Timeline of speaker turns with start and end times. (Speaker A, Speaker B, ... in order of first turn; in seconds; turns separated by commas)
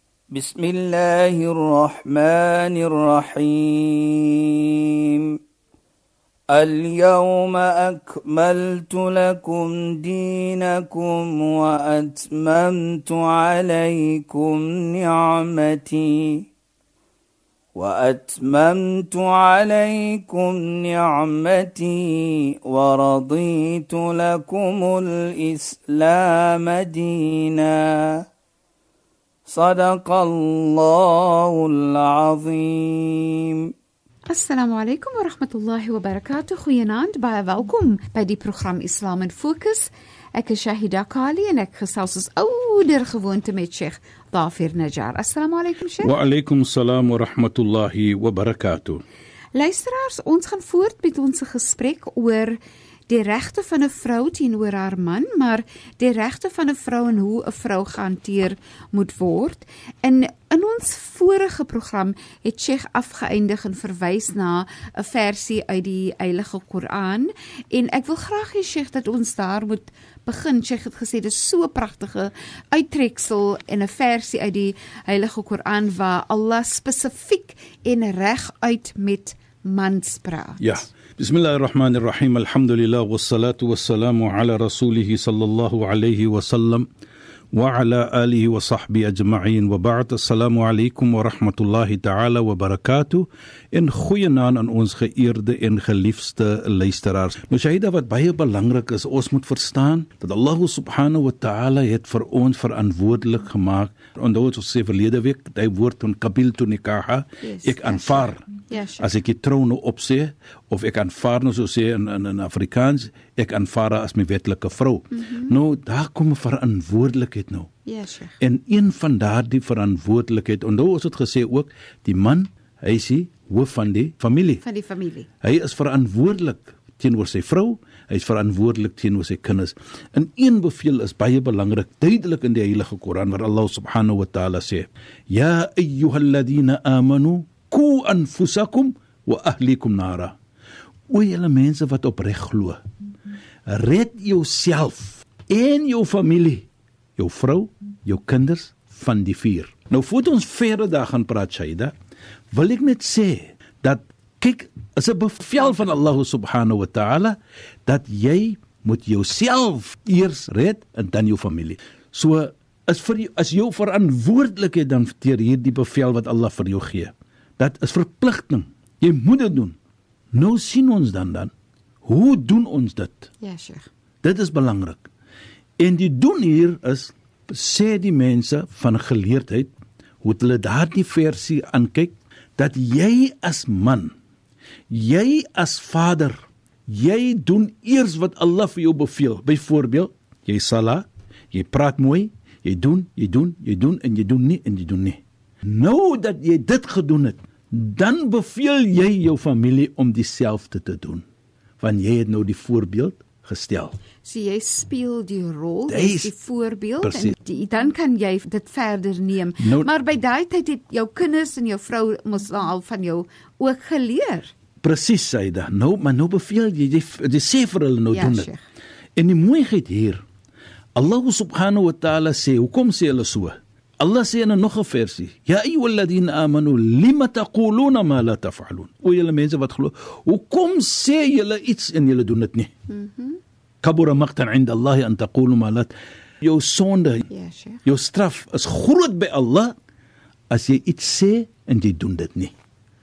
Speaker A: 0.3-5.4, Speaker A: 6.5-16.5, Speaker A: 17.8-28.2, Speaker A: 29.5-33.7, Speaker B: 34.3-46.1, Speaker C: 46.0-49.0, Speaker B: 49.5-52.6, Speaker B: 53.1-80.7, Speaker C: 80.6-86.9, Speaker C: 87.5-108.5, Speaker B: 107.4-109.1, Speaker C: 109.0-117.7, Speaker B: 115.1-115.6, Speaker B: 117.9-118.4, Speaker C: 118.4-124.6, Speaker B: 124.6-125.3, Speaker C: 125.4-140.4, Speaker C: 141.1-142.8, Speaker C: 143.7-151.9, Speaker C: 152.5-169.8, Speaker C: 170.3-171.5, Speaker C: 172.0-173.3, Speaker B: 173.4-173.9, Speaker C: 174.2-175.1, Speaker C: 175.8-179.7, Speaker C: 180.2-184.1, Speaker C: 184.9-201.2, Speaker C: 201.8-204.0, Speaker B: 204.2-214.5, Speaker C: 205.9-206.3, Speaker C: 207.0-207.3, Speaker C: 209.6-209.9, Speaker C: 214.8-218.5, Speaker B: 218.1-218.6, Speaker C: 219.2-220.2, Speaker C: 221.0-232.7, Speaker B: 232.9-233.4, Speaker C: 233.8-237.3, Speaker B: 237.3-237.8, Speaker C: 237.8-239.7, Speaker C: 240.5-242.5